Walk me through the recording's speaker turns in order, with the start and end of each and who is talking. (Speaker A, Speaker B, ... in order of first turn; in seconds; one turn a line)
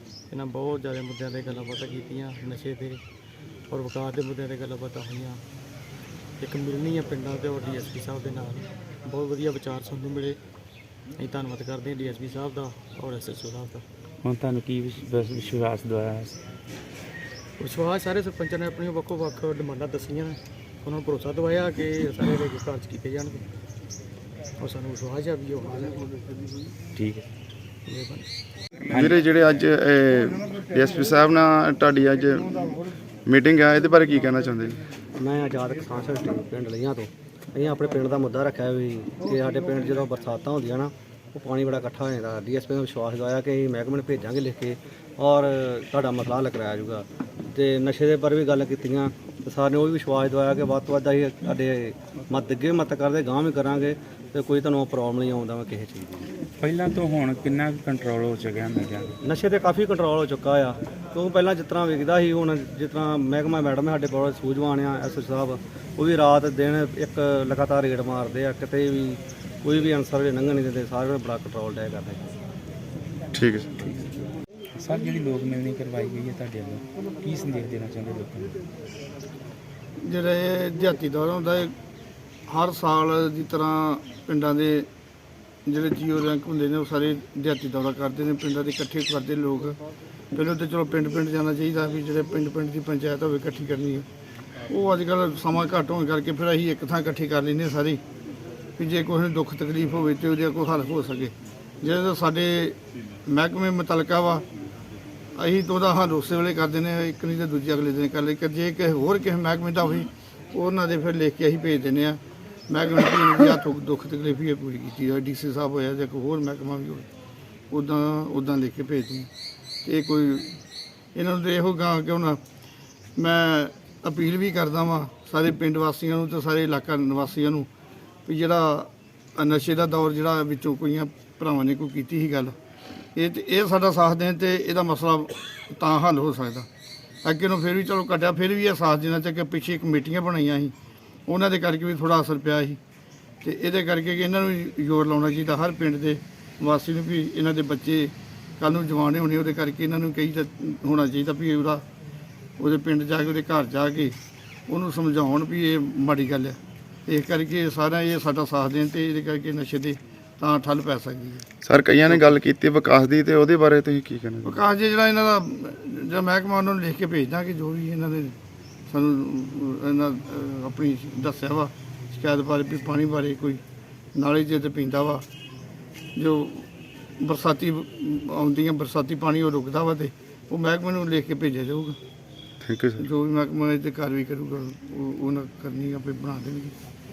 Speaker A: 0.3-3.0
Speaker A: 3.7-5.4
Speaker A: 6.4-10.4
Speaker A: 11.2-13.8
Speaker B: 14.2-16.4
Speaker A: 17.6-23.4
Speaker A: 24.6-26.2
Speaker B: 26.9-27.3
Speaker A: 27.9-28.3
Speaker C: 28.9-34.8
Speaker B: 28.9-29.2
Speaker D: 35.2-56.3
Speaker B: 56.6-59.1
Speaker D: 59.2-72.3
Speaker C: 73.3-73.7
Speaker B: 73.8-74.1
Speaker B: 74.8-78.6
Speaker E: 80.0-81.7
Speaker E: 82.5-84.9
Speaker E: 85.7-89.8
Speaker E: 90.3-94.0
Speaker E: 94.7-98.0
Speaker E: 98.8-104.4
Speaker E: 105.3-117.1
Speaker E: 117.7-119.3
Speaker E: 119.8-120.6
Speaker E: 121.1-122.4
Speaker E: 123.2-127.7
Speaker E: 128.3-132.5
Speaker E: 133.1-136.7
Speaker E: 137.2-140.7
Speaker E: 141.3-142.8
Speaker E: 143.4-151.8
Speaker E: 152.6-154.2
Speaker E: 154.7-161.5
Speaker C: 161.6-164.6
Speaker E: 164.4-168.3
Speaker E: 168.9-173.6
Speaker E: 174.2-175.2
Speaker E: 176.2-176.7
Speaker E: 177.2-182.0
Speaker C: 182.6-183.1
Speaker E: 183.0-186.7